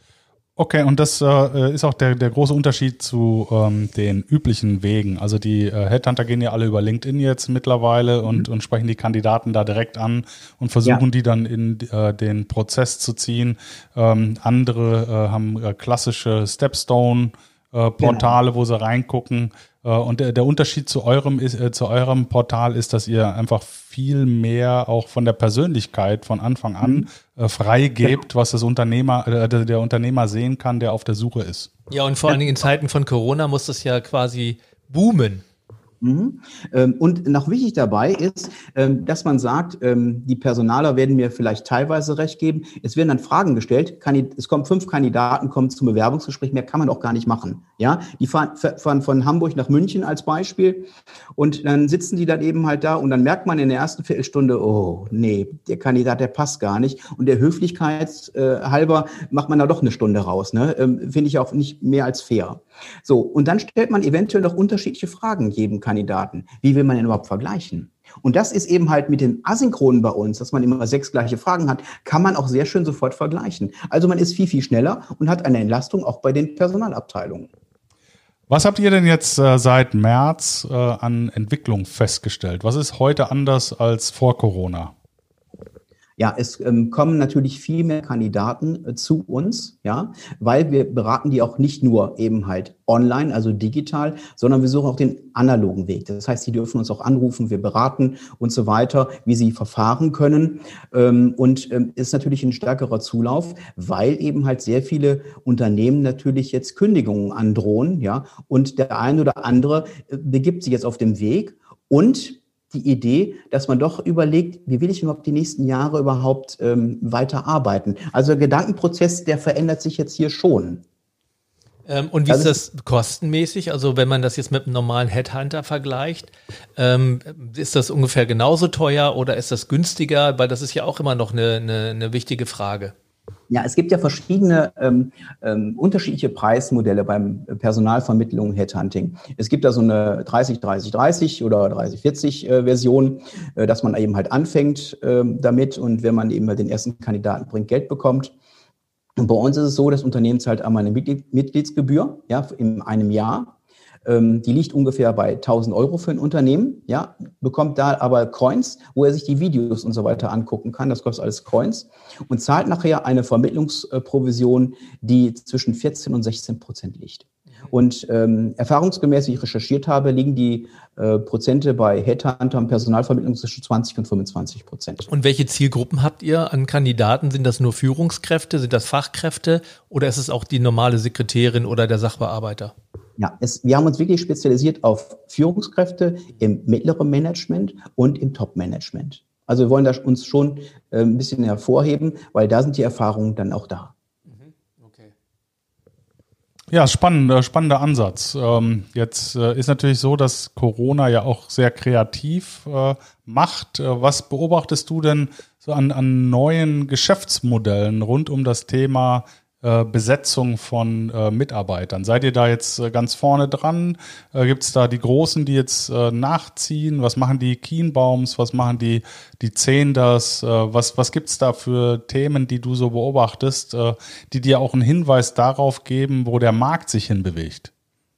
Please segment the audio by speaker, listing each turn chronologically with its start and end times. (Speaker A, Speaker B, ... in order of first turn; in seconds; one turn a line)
Speaker A: 0.6-31.7
Speaker B: 18.0-18.4
Speaker B: 26.8-27.1
Speaker C: 31.9-35.4
Speaker B: 36.0-77.5
Speaker A: 78.5-84.9
Speaker B: 86.2-120.8
Speaker C: 121.9-132.9
Speaker B: 122.3-122.5
Speaker B: 133.5-148.3
Speaker B: 149.2-153.5
Speaker B: 154.0-175.1
Speaker C: 175.1-182.7
Speaker B: 183.2-193.9
Speaker C: 194.3-195.1
Speaker A: 196.7-227.7